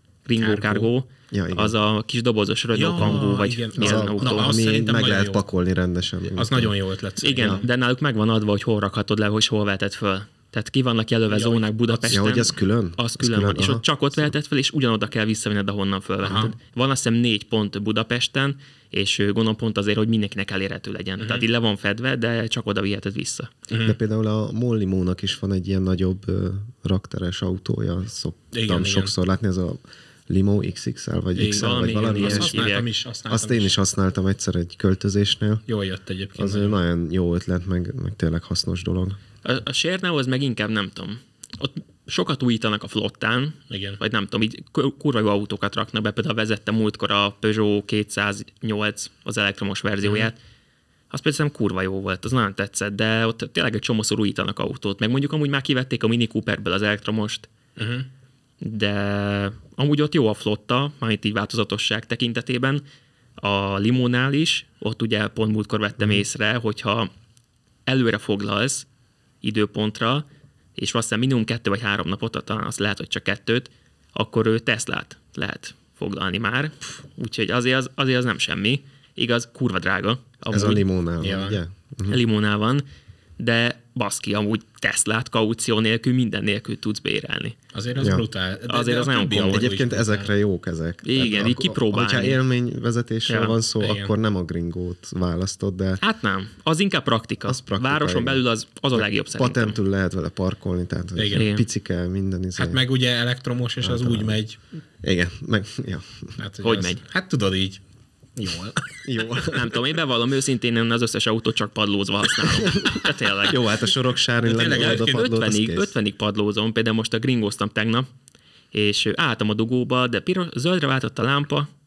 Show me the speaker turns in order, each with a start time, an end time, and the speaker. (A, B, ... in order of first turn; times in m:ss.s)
0:00.2-0:04.6 A
0:00.4-0:00.9 B
0:01.3-0:01.7 C
0:02.7-0:05.4 B
0:03.8-0:06.7 C
0:06.4-0:07.6 B
0:07.2-0:23.5 A
0:07.4-0:07.6 C
0:11.3-0:12.2 B
0:12.1-0:14.3 C
0:16.2-0:16.5 B
0:21.2-0:21.4 B
0:23.7-0:24.0 B
0:23.8-0:32.7 C
0:28.5-0:29.1 B
0:31.4-0:33.7 B
0:31.5-0:32.9 A
0:33.3-0:35.6 C
0:35.7-0:36.8 B
0:36.4-0:39.2 C
0:39.4-0:50.4 A
0:43.7-0:44.0 B
0:50.0-0:50.3 B
0:51.1-0:57.5 A
0:57.8-0:58.1 B
0:58.6-1:02.8 A
1:03.4-1:07.1 A
1:07.8-1:08.9 A
1:09.4-1:20.8 A
1:20.5-1:22.2 C
1:21.2-1:21.6 B
1:22.1-1:22.8 A
1:23.4-1:27.6 A
1:27.7-1:30.3 B
1:28.0-1:28.2 C
1:28.7-1:29.7 A
1:29.5-1:36.0 C
1:31.0-1:32.4 A
1:33.3-1:33.5 A
1:33.8-1:34.1 B
1:36.0-1:39.8 A
1:37.5-1:38.4 C
1:38.9-1:42.8 C
1:41.2-1:41.5 B
1:41.3-1:41.6 A
1:42.6-1:44.6 B
1:43.8-1:44.4 C
1:45.0-1:46.4 C
1:46.4-1:47.8 B
1:46.6-1:47.0 A
1:48.4-1:49.0 B
1:49.0-1:49.7 C
1:49.5-1:53.7 A
1:52.6-1:55.9 C
1:54.4-1:55.1 B
1:54.6-1:58.1 A
1:58.7-2:01.7 A